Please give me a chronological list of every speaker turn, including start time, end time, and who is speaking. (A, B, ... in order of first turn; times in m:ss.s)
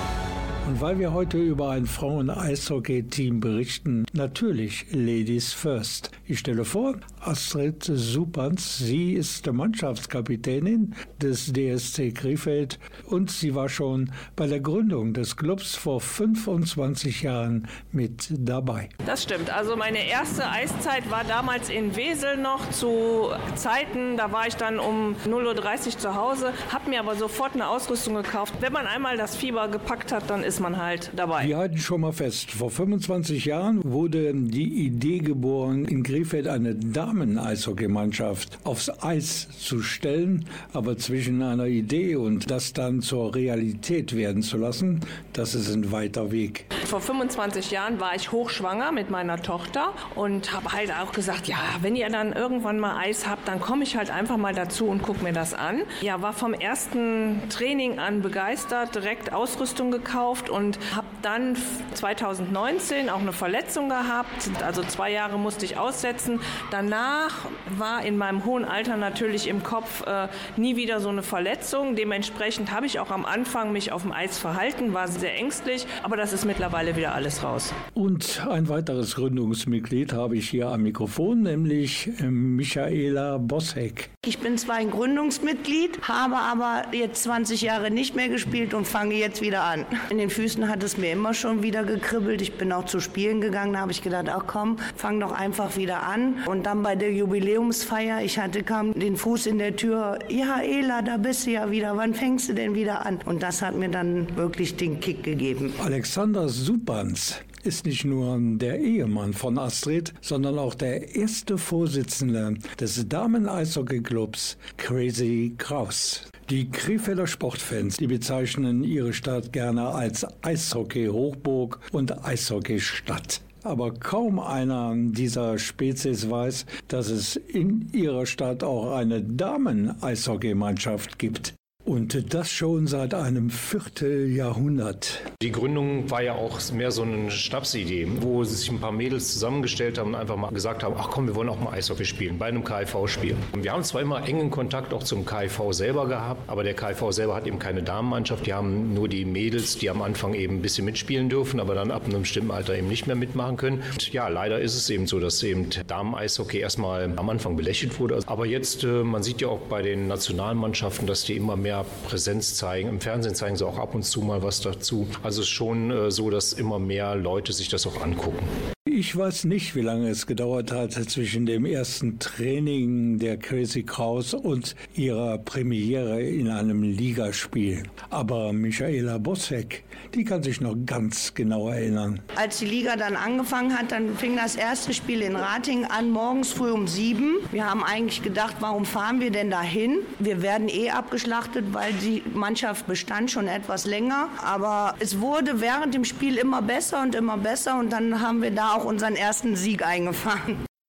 0:00.6-0:18.9 A
0:19.0-0:31.5 B
0:31.4-0:46.6 A
0:46.8-1:17.7 B
1:17.9-1:24.1 A
1:24.2-1:45.7 C
1:45.8-2:15.3 A
2:15.4-2:48.5 D
2:48.9-3:02.2 A
3:02.3-3:20.6 C